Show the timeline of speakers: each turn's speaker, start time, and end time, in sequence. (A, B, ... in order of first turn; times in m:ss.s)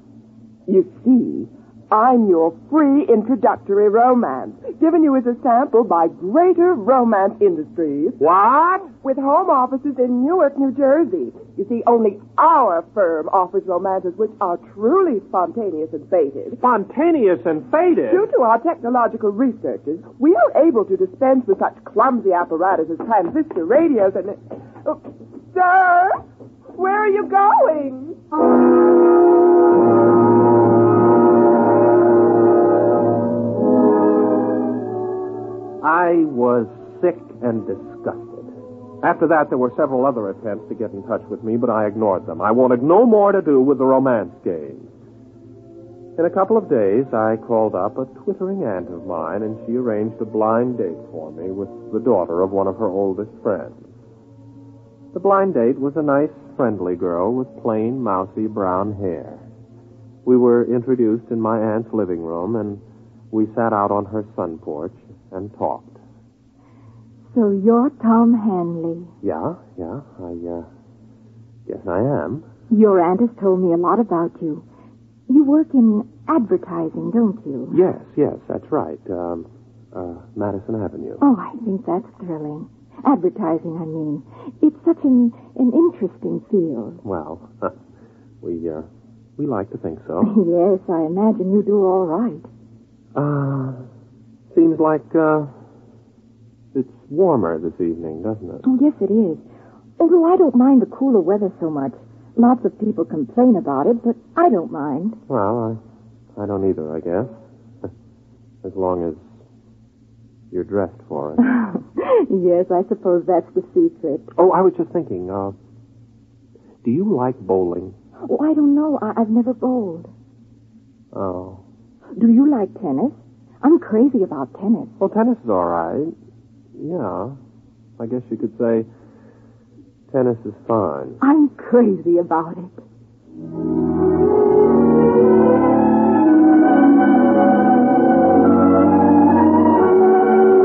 0:00.7-0:08.2 A
0:08.2-0:08.9 B
0:08.9-0:16.6 A
0:16.6-0:18.3 B
0:18.1-0:26.2 A
0:26.8-0:28.2 A
0:35.8-0:38.5 B
0:39.0-0:44.9 B
0:46.2-0:53.8 B
0:55.1-0:59.4 B
1:00.2-1:06.0 B
1:07.3-1:09.1 C
1:09.2-1:10.7 B
1:11.7-1:12.4 B
1:12.7-1:14.6 C
1:15.3-1:17.8 C
1:17.7-1:21.2 B
1:21.2-1:27.0 C
1:27.0-1:27.8 B
1:28.4-1:30.4 B
1:30.2-1:32.5 C
1:33.2-1:33.9 B
1:34.5-1:35.5 B
1:36.7-1:38.7 B
1:38.6-1:39.4 C
1:40.0-1:45.2 C
1:45.3-1:45.8 B
1:46.4-1:47.3 B
1:48.6-1:49.4 B
1:50.5-1:51.5 B
1:51.4-1:54.3 C
1:54.3-1:55.6 B
1:56.8-1:58.0 B
1:58.2-2:00.1 C
2:01.1-2:01.6 B
2:02.2-2:05.0 C
2:05.0-2:06.2 B
2:06.8-2:07.4 B
2:08.0-2:08.9 B
2:10.1-2:11.2 B
2:11.2-2:12.8 C